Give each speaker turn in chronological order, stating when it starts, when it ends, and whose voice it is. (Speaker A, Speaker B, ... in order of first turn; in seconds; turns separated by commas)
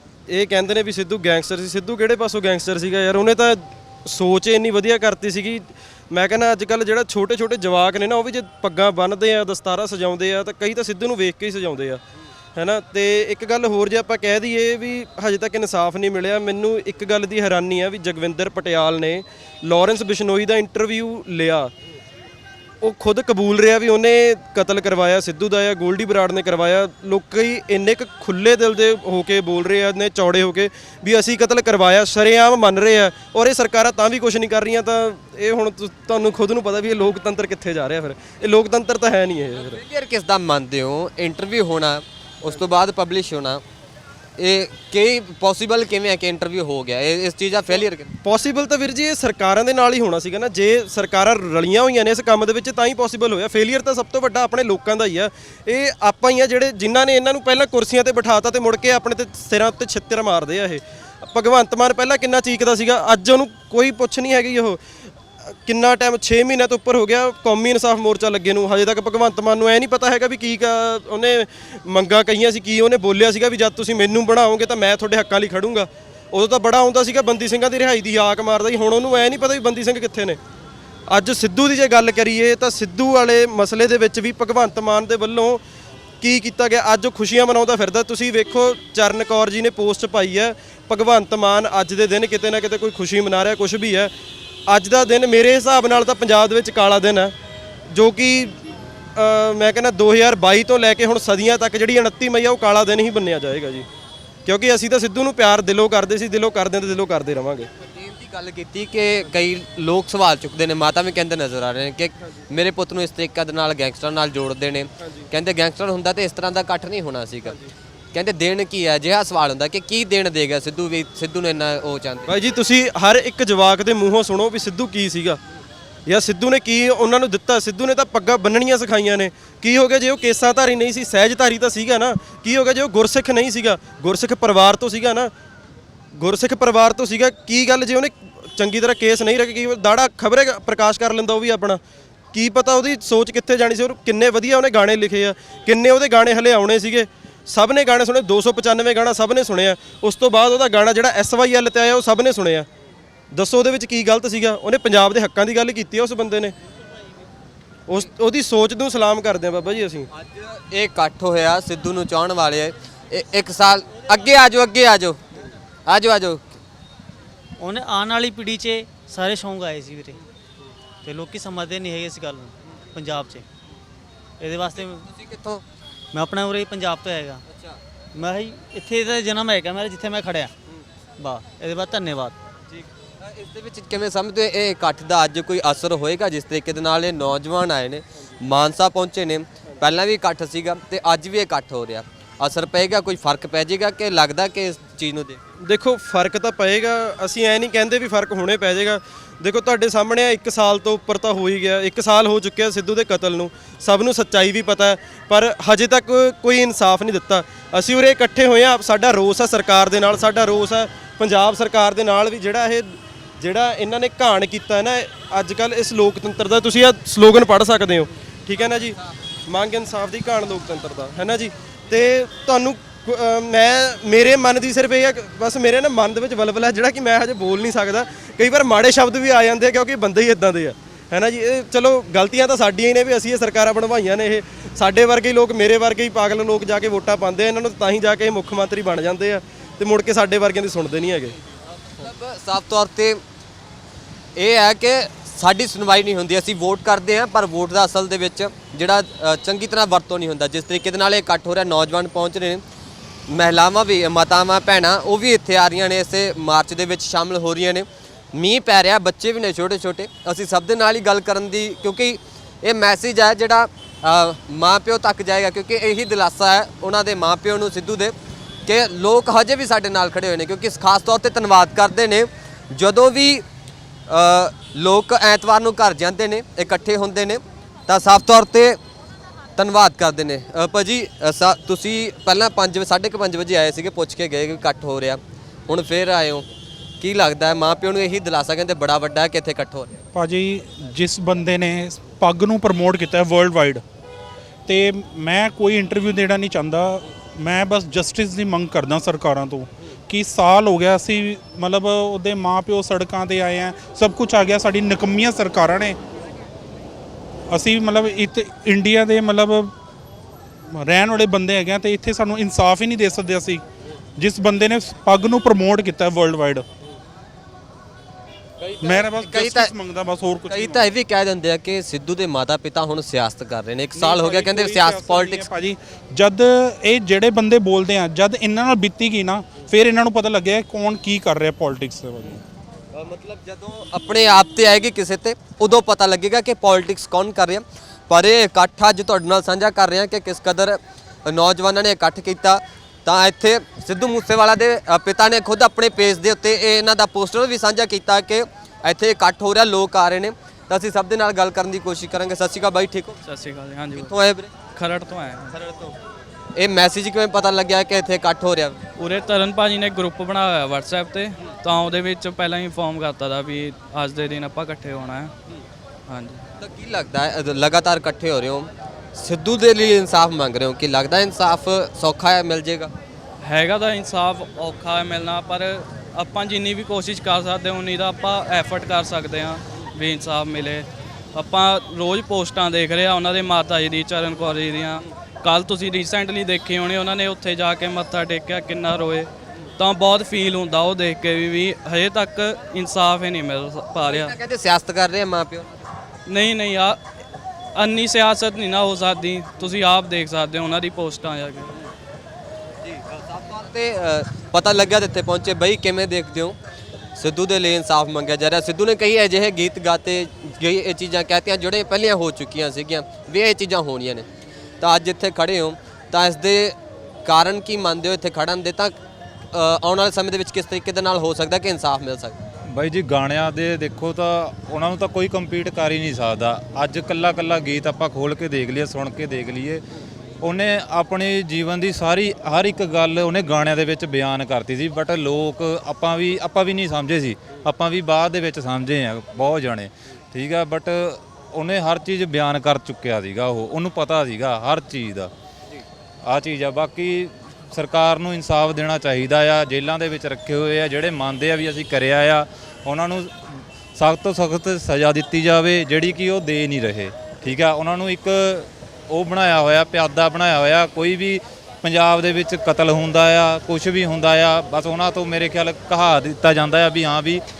Speaker A: 0.3-12.0, Speaker A: 12.6-21.7, Speaker A: 22.8-39.8, Speaker B: 39.5-43.6, Speaker B: 44.4-48.1, Speaker A: 48.2-64.8, Speaker A: 65.6-80.4, Speaker A: 81.1-85.6, Speaker A: 86.2-94.1, Speaker A: 94.7-97.3, Speaker A: 97.9-98.5, Speaker A: 99.2-103.8, Speaker A: 104.5-107.7, Speaker B: 107.9-117.6, Speaker B: 118.1-122.3, Speaker A: 122.3-125.4, Speaker A: 126.0-135.3, Speaker A: 136.1-141.8, Speaker A: 142.3-152.7, Speaker A: 153.3-156.5, Speaker A: 157.9-160.0, Speaker B: 160.1-166.6, Speaker C: 167.6-170.2, Speaker C: 171.0-173.4, Speaker C: 174.4-175.0, Speaker B: 174.7-175.6, Speaker C: 176.1-177.4, Speaker B: 177.5-177.8, Speaker C: 178.1-180.5, Speaker C: 181.2-182.3, Speaker B: 182.7-195.4, Speaker A: 195.6-218.9, Speaker A: 219.4-241.3, Speaker B: 241.9-243.2, Speaker B: 244.3-252.6, Speaker B: 253.3-268.1, Speaker B: 268.6-273.4, Speaker B: 274.1-278.8, Speaker B: 279.6-286.4, Speaker B: 287.0-290.0, Speaker D: 290.1-293.8, Speaker D: 294.7-306.0, Speaker D: 307.5-309.7, Speaker D: 310.7-313.6, Speaker D: 314.2-316.6, Speaker D: 318.8-320.9, Speaker B: 318.8-319.7, Speaker B: 320.5-325.5, Speaker D: 323.9-332.4, Speaker B: 332.9-353.2, Speaker E: 353.2-354.1, Speaker B: 353.9-354.5, Speaker E: 354.7-355.5, Speaker B: 355.5-355.9, Speaker B: 356.5-358.8, Speaker E: 359.0-365.3, Speaker E: 366.1-366.4, Speaker B: 366.6-372.9, Speaker E: 373.4-394.3, Speaker B: 394.0-395.8, Speaker E: 396.3-397.0, Speaker E: 397.7-401.7, Speaker B: 402.8-406.6, Speaker B: 407.1-414.2, Speaker B: 414.8-419.0, Speaker B: 419.5-422.4, Speaker F: 422.7-429.8, Speaker F: 430.4-445.3, Speaker F: 446.2-467.4